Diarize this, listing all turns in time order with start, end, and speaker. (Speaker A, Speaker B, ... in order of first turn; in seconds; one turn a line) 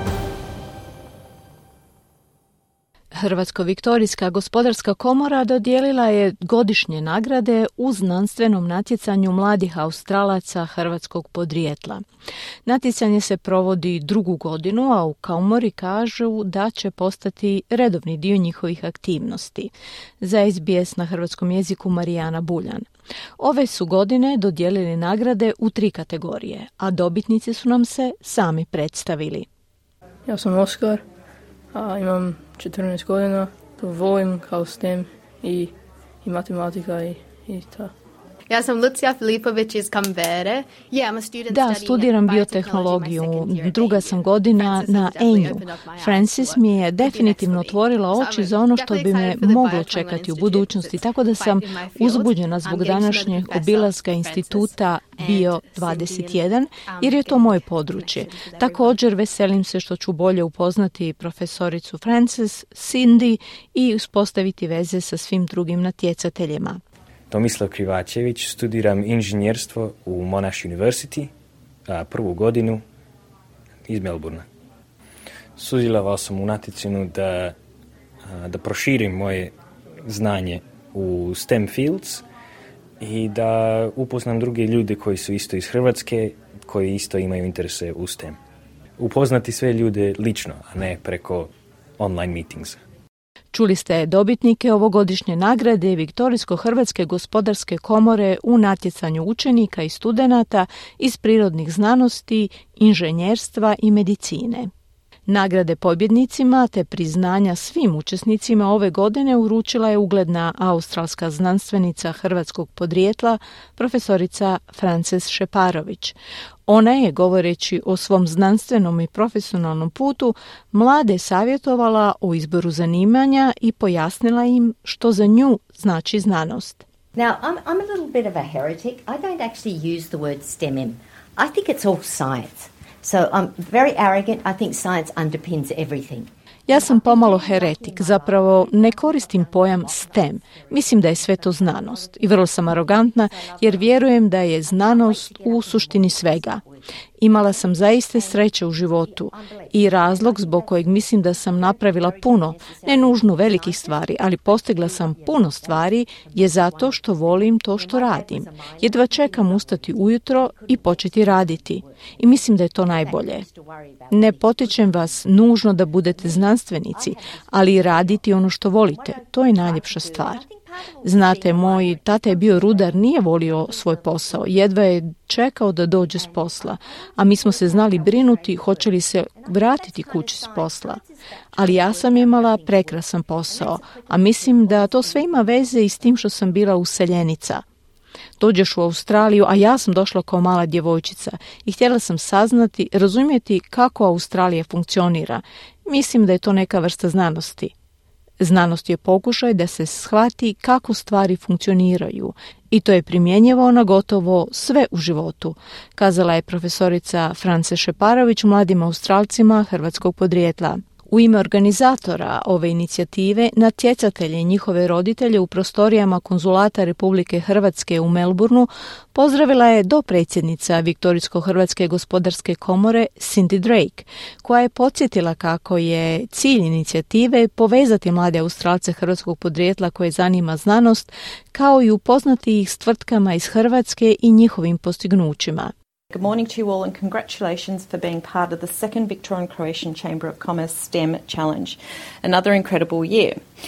Speaker A: 3.1-12.0
Speaker A: 12.6-22.9
Speaker A: 23.4-29.5
Speaker B: 30.3-31.0
Speaker B: 31.7-37.9
Speaker C: 38.5-59.0
Speaker A: 41.5-66.8
Speaker D: 67.3-71.3
Speaker D: 71.9-72.8
Speaker D: 73.9-74.5
Speaker D: 75.6-77.5
Speaker D: 78.2-79.5
Speaker D: 80.1-82.2
Speaker D: 83.0-88.4
Speaker D: 89.0-92.8
Speaker A: 93.5-104.7
Speaker A: 105.3-126.8
Speaker E: 127.1-174.8
Speaker A: 136.7-146.6
Speaker A: 147.2-163.4
Speaker A: 164.1-170.4
Speaker A: 171.0-181.0
Speaker E: 175.9-186.2
Speaker A: 181.5-187.6
Speaker A: 188.4-197.7
Speaker A: 198.4-235.7
Speaker F: 236.1-243.4